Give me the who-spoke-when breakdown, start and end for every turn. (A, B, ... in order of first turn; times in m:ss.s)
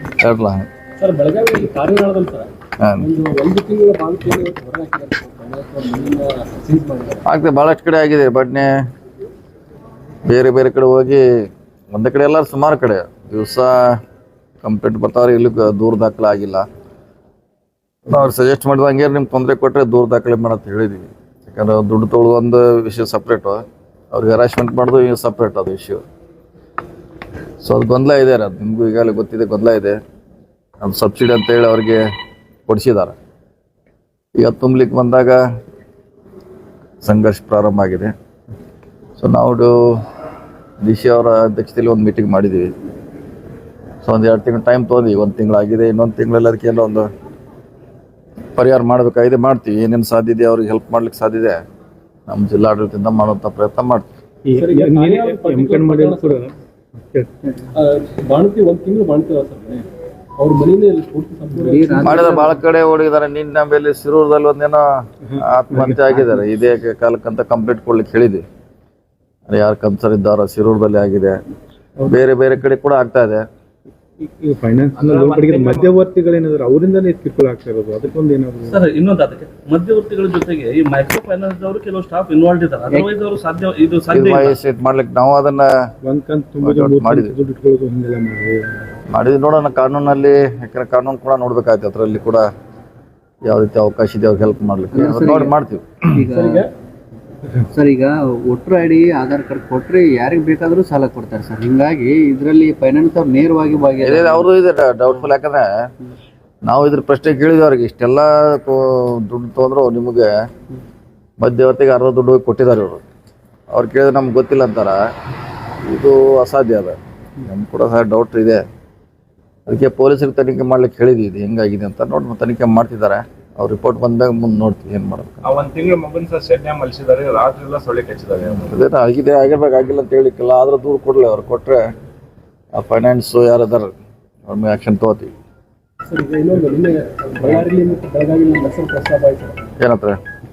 0:00.2-0:00.6 A
0:01.0-0:07.2 B
0:02.8-0:03.1 A
0:07.3-0:08.7 A
0:10.3-0:11.2 A
0:11.9-0:14.0 A
0:14.6-0:16.7 A
0:18.1-0:26.0 A
0:27.6-0:30.0 A
0:30.8-0:32.0 A
0:32.7-0:33.1 A
0:34.4-0:35.4 A
0:37.0-0:38.1 A
0:39.2-0:40.0 A
0:40.8-0:42.7 A
0:44.0-0:47.1 A
0:48.6-0:51.6 A
0:52.3-0:54.1 A
0:54.4-0:56.5 C
0:54.6-0:56.5 B
0:57.7-0:59.9 B
1:00.4-1:02.4 B
1:01.7-1:02.6 D
1:02.0-1:04.8 A
1:05.4-1:08.4 A
1:05.7-1:06.0 C
1:09.5-1:11.4 A
1:12.1-1:13.4 A
1:14.2-1:18.8 C
1:15.0-1:15.9 E
1:18.7-1:24.6 F
1:24.1-1:25.7 A
1:26.0-1:28.8 C
1:26.6-1:27.3 A
1:29.1-1:32.5 A
1:33.4-1:36.2 A
1:34.9-1:35.6 D
1:36.1-1:36.6 D
1:36.2-1:36.7 B
1:37.7-1:44.5 D
1:44.0-1:45.7 A
1:46.6-1:50.3 A
1:51.4-1:53.0 A
1:53.7-1:55.0 A
1:55.8-1:58.6 A
1:59.7-2:05.5 A
2:05.4-2:08.7 E
2:08.7-2:11.8 A
2:12.8-2:13.9 A
2:14.5-2:15.3 A
2:16.0-2:19.6 B
2:19.8-2:20.2 A